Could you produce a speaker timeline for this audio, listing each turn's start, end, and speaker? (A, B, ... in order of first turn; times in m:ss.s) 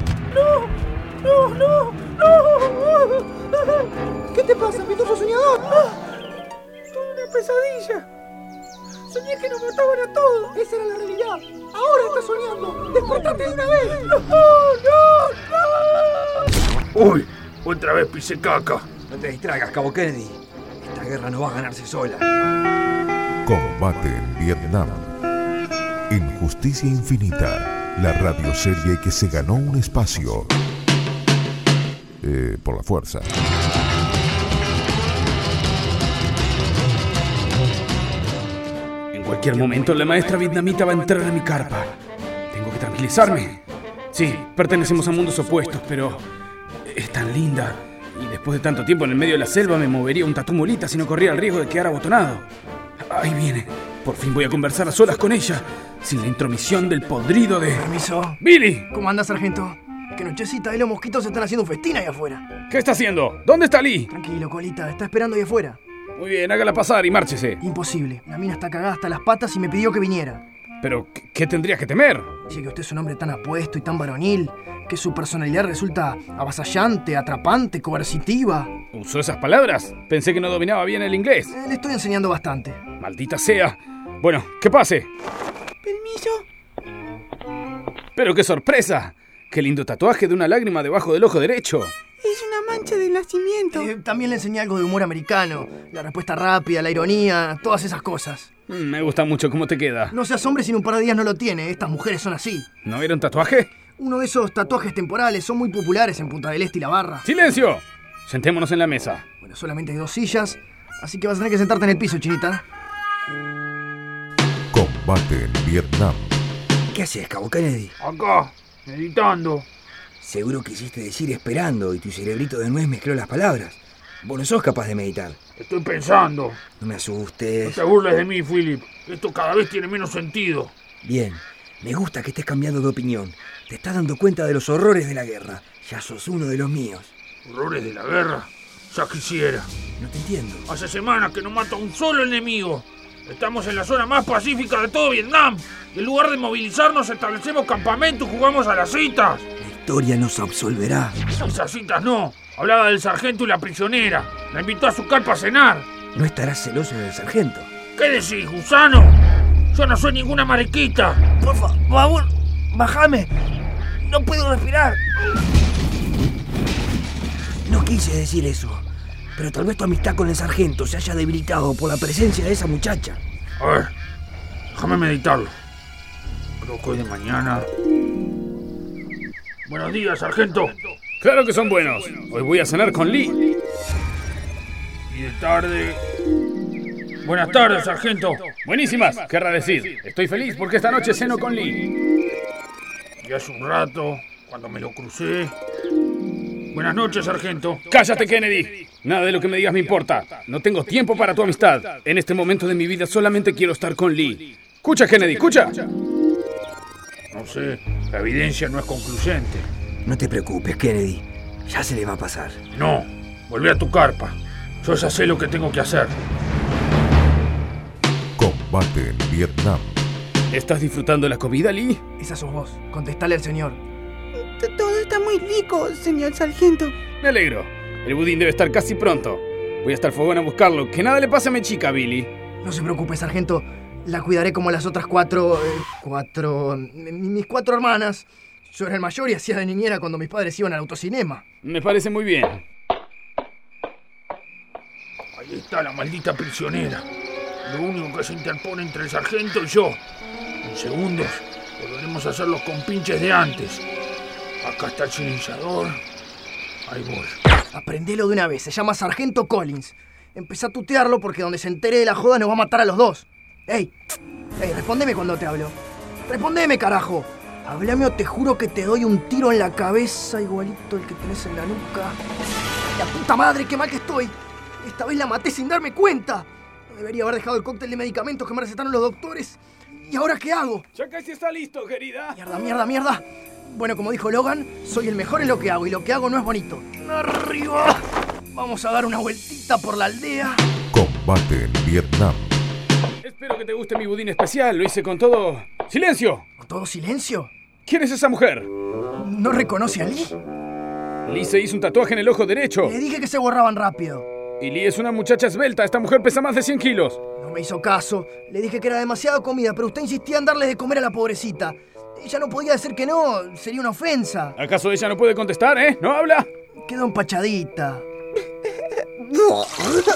0:00.3-0:00.6 A
0:01.2-0:06.0 A
0:07.0-0:07.9 A
0:07.2-0:07.5 B
0:09.1-0:15.5 A
0:16.9-0:18.9 C
0:19.1-0:22.3 D
0:23.4-0:25.1 E
0:26.1-0:30.5 E
0:32.2-0:33.3 E
0:39.1-0:41.9 F
0:42.5-0:43.6 F
0:44.1-0:46.2 F
0:46.8-0:52.4 F
0:53.0-0:57.8 F
0:57.7-0:58.4 A
0:58.4-0:58.9 F
0:58.9-1:02.5 A
1:02.7-1:04.1 F
1:04.1-1:05.8 A
1:06.2-1:07.6 F
1:07.6-1:10.4 A
1:10.8-1:12.3 F
1:12.5-1:18.7 A
1:18.9-1:21.5 F
1:21.5-1:22.8 A
1:23.0-1:25.1 F
1:25.8-1:26.4 B
1:28.2-1:31.9 F
1:32.2-1:33.9 B
1:33.7-1:38.5 A
1:38.7-1:40.1 F
1:40.1-1:42.6 A
1:42.8-1:43.7 F
1:44.0-1:47.2 A
1:47.2-1:49.2 F
1:49.4-1:52.6 A
1:54.7-1:56.4 E
1:56.9-1:57.9 D
1:58.0-1:59.7 C
2:00.2-2:05.4 D
2:05.6-2:06.6 C
2:06.8-2:07.8 D
2:07.6-2:10.7 C
2:11.0-2:17.1 D
2:17.4-2:19.7 C
2:20.0-2:20.6 D
2:20.7-2:29.4 C
2:29.6-2:31.3 D
2:31.4-2:35.9 C
2:36.1-2:37.7 D
2:38.0-2:39.2 C
2:39.7-2:41.2 C
2:41.4-2:43.3 D
2:44.0-2:45.0 D
2:47.6-2:53.2 D
2:53.6-2:53.9 C
2:54.7-2:55.5 C
2:56.6-2:57.7 C
2:59.6-3:00.8 C
3:01.2-3:03.4 F
3:05.1-3:06.0 C
3:07.2-3:08.5 C
3:08.6-3:11.8 F
3:13.2-3:15.5 C
3:16.7-3:17.9 C
3:17.8-3:25.7 F
3:27.3-3:29.7 C
3:30.0-3:32.6 D
3:32.7-3:36.1 C
3:38.4-3:39.9 E
3:40.5-3:42.0 F
3:42.2-3:43.8 A
3:44.4-3:47.0 B
3:47.2-3:52.3 F
3:52.6-4:01.4 A
4:01.6-4:02.6 F
4:05.3-4:07.0 C
4:07.6-4:10.0 C
4:10.6-4:13.8 C
4:14.6-4:16.0 C
4:16.9-4:17.4 C
4:17.7-4:23.9 A
4:24.6-4:32.2 A
4:32.9-4:40.8 A
4:40.9-4:42.4 F
4:42.3-4:50.6 A
4:50.9-4:52.6 E
4:53.2-4:56.4 F
4:56.6-4:57.5 A
4:57.8-4:58.7 F
4:59.2-5:00.3 A
5:01.2-5:02.9 F
5:02.8-5:04.2 A
5:04.6-5:07.2 F
5:07.4-5:14.6 A
5:14.6-5:16.5 F
5:16.8-5:18.0 A